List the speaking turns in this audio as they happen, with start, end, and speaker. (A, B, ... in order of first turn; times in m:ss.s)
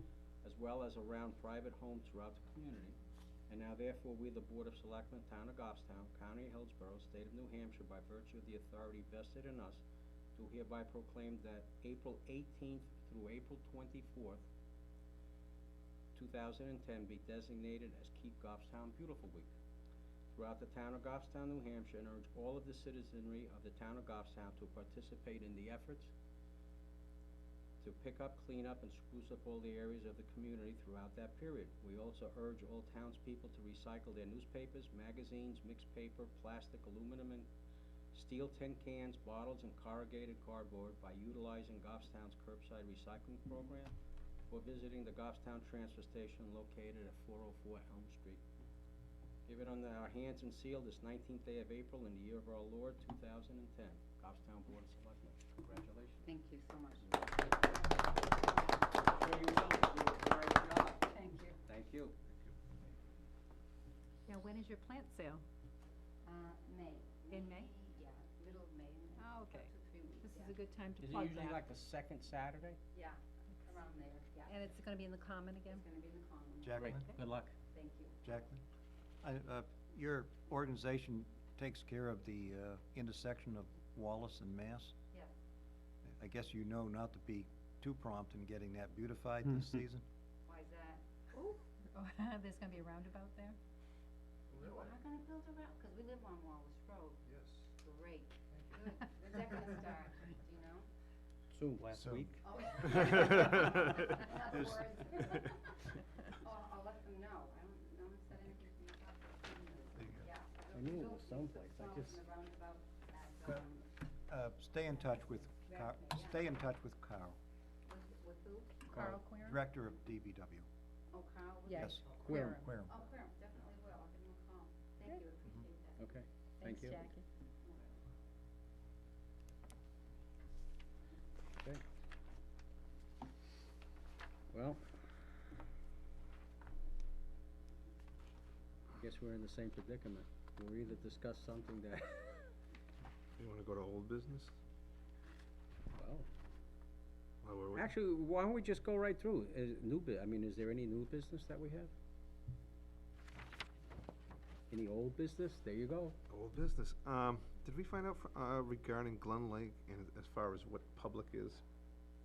0:00.4-0:03.0 A
0:03.5-0:09.8 A
0:10.4-0:14.5 A
0:16.1-0:19.5 A
0:20.3-0:26.1 A
0:27.8-0:37.5 A
0:38.1-0:43.9 A
0:44.5-0:48.4 A
0:49.4-0:56.3 A
0:56.2-0:58.5 B
0:59.0-1:02.2 A
1:01.1-1:01.6 B
1:04.3-1:05.4 C
1:06.2-1:10.5 B
1:07.3-1:07.7 C
1:09.2-1:09.7 C
1:10.2-1:11.6 C
1:11.0-1:12.8 A
1:12.9-1:14.5 B
1:14.4-1:15.8 C
1:15.7-1:17.0 B
1:16.6-1:17.0 D
1:16.8-1:17.5 A
1:17.7-1:18.2 B
1:18.2-1:18.6 D
1:19.2-1:24.9 D
1:26.1-1:30.0 D
1:30.4-1:31.5 B
1:31.4-1:33.6 C
1:34.5-1:40.9 B
1:41.5-1:42.4 A
1:42.0-1:42.3 D
1:42.4-1:53.9 B
1:43.2-1:43.8 E
1:50.0-1:50.3 D
1:50.7-1:52.2 A
1:54.3-1:57.4 D
1:55.6-1:56.5 B
1:57.9-1:59.0 B
1:58.9-1:59.6 C
1:58.9-2:00.6 D
2:01.1-2:06.0 B
2:01.7-2:02.6 C
2:01.7-2:03.0 D
2:02.3-2:02.7 A
2:06.0-2:07.1 A
2:06.6-2:07.2 C
2:07.6-2:08.0 B
2:14.5-2:14.8 A
2:18.9-2:22.4 A
2:23.4-2:24.5 E
2:25.9-2:26.3 A
2:27.4-2:27.9 E
2:27.7-2:31.9 A
2:34.7-2:36.2 A
2:36.3-2:41.6 E